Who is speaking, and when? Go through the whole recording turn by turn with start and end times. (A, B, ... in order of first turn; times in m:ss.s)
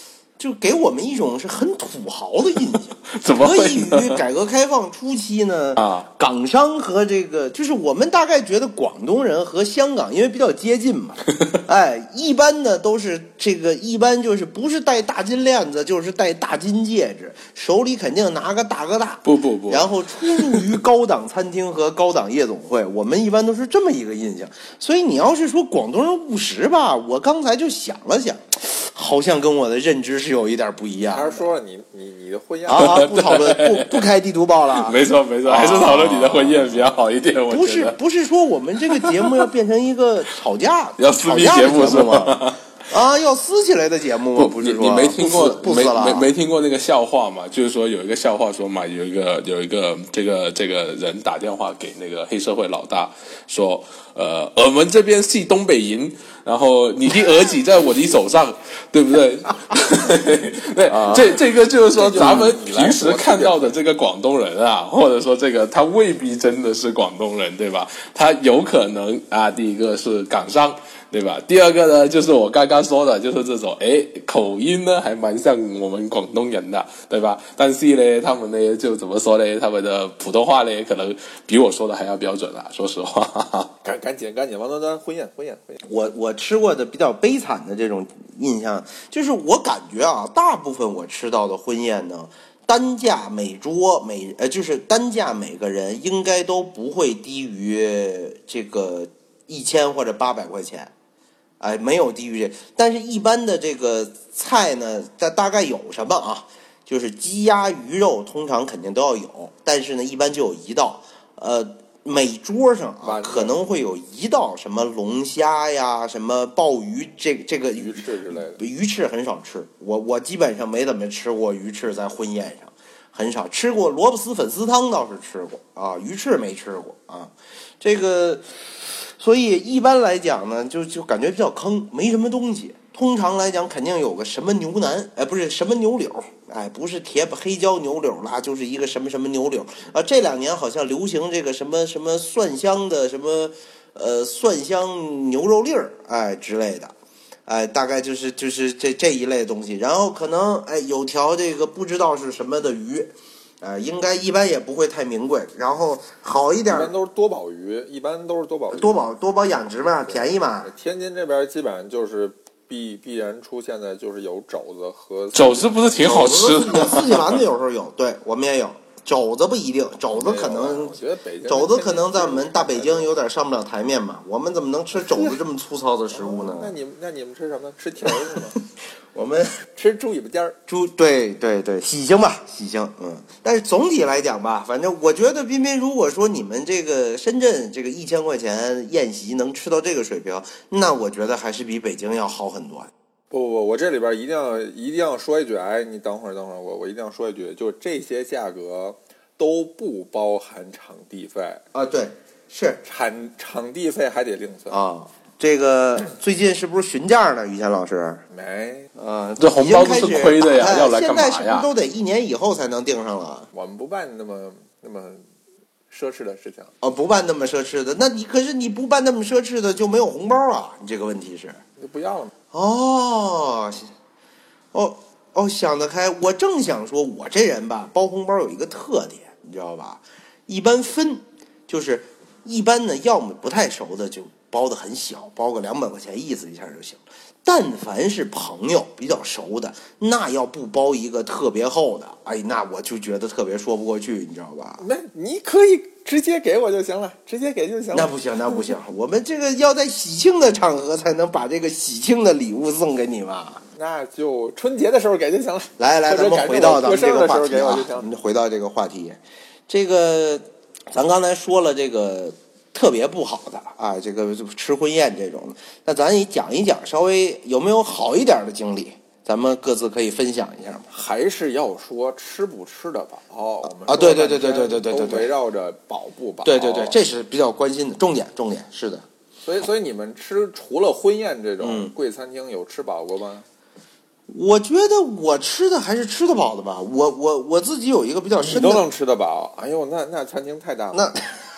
0:00.4-0:31.4 A
0:03.1-0:04.2 B
0:05.8-0:06.1 B
0:19.2-0:20.7 B
0:31.1-0:33.3 C
0:32.7-0:36.9 A
0:32.7-0:34.0 B
0:34.7-0:38.0 B
0:37.5-0:46.3 A
0:38.9-0:39.5 B
0:41.0-0:42.6 B
0:44.4-1:23.7 B
1:00.9-1:01.3 A
1:02.0-1:03.8 C
1:02.2-1:02.5 A
1:23.8-1:25.8 C
1:25.8-1:40.9 A
1:41.6-2:08.4 A
1:53.0-1:53.6 C
1:57.7-1:58.6 C
2:09.1-2:26.9 A
2:27.5-2:36.9 A
2:36.7-2:39.0 C
2:38.7-2:40.7 A
2:40.1-2:46.1 C
2:45.3-2:47.4 B
2:46.0-2:56.8 A
2:50.1-2:53.1 C
2:54.9-2:55.4 C
2:56.1-2:58.6 C
2:59.1-2:59.6 A
2:59.7-3:00.6 C
3:00.7-3:12.9 A
3:13.3-3:21.6 C
3:21.7-3:22.8 A
3:22.8-3:24.8 C
3:24.7-3:28.2 A
3:28.3-3:28.9 C
3:28.9-3:33.5 A
3:29.4-3:31.7 B
3:33.5-3:35.2 C
3:35.9-3:36.7 C
3:36.8-3:41.6 A
3:41.8-3:42.3 C
3:42.5-3:43.9 A
3:44.7-4:04.8 A
4:04.8-4:08.7 C
4:07.9-4:13.6 A
4:13.7-4:18.1 C
4:15.8-4:31.0 A
4:30.9-4:37.0 C
4:33.8-4:35.3 A
4:36.4-4:39.0 A
4:39.4-4:43.4 C
4:41.6-4:41.9 A
4:44.3-4:48.8 A
4:48.4-4:51.2 C
4:50.9-4:51.3 A